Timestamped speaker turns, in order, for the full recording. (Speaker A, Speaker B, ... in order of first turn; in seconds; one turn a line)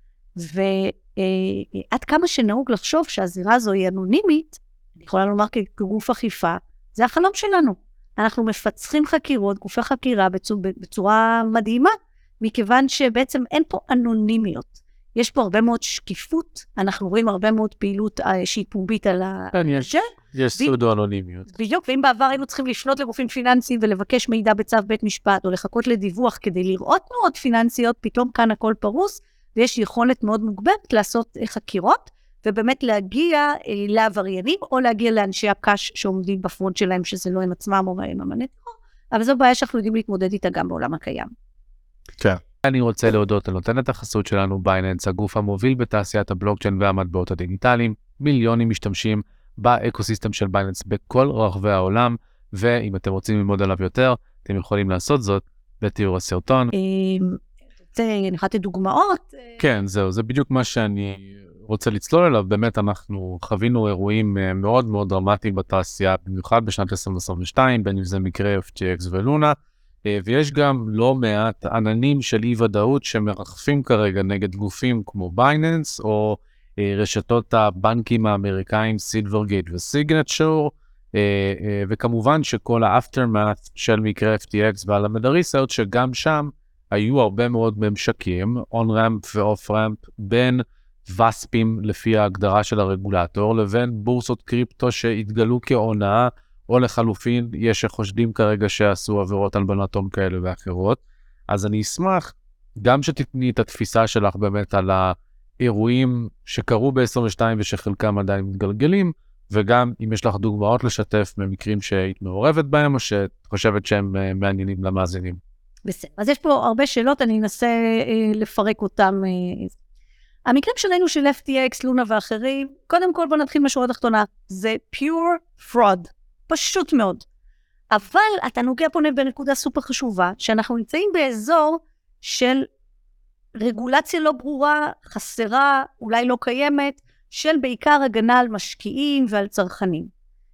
Speaker A: 0.3-20.7
Speaker B: 19.5-21.5
Speaker A: 21.5-41.3
Speaker B: 42.2-56.7
Speaker A: 56.7-57.4
Speaker A: 57.9-59.6
Speaker B: 59.6-115.4
Speaker A: 115.8-119.7
Speaker A: 120.5-127.2
Speaker A: 127.9-132.7
Speaker A: 133.6-140.1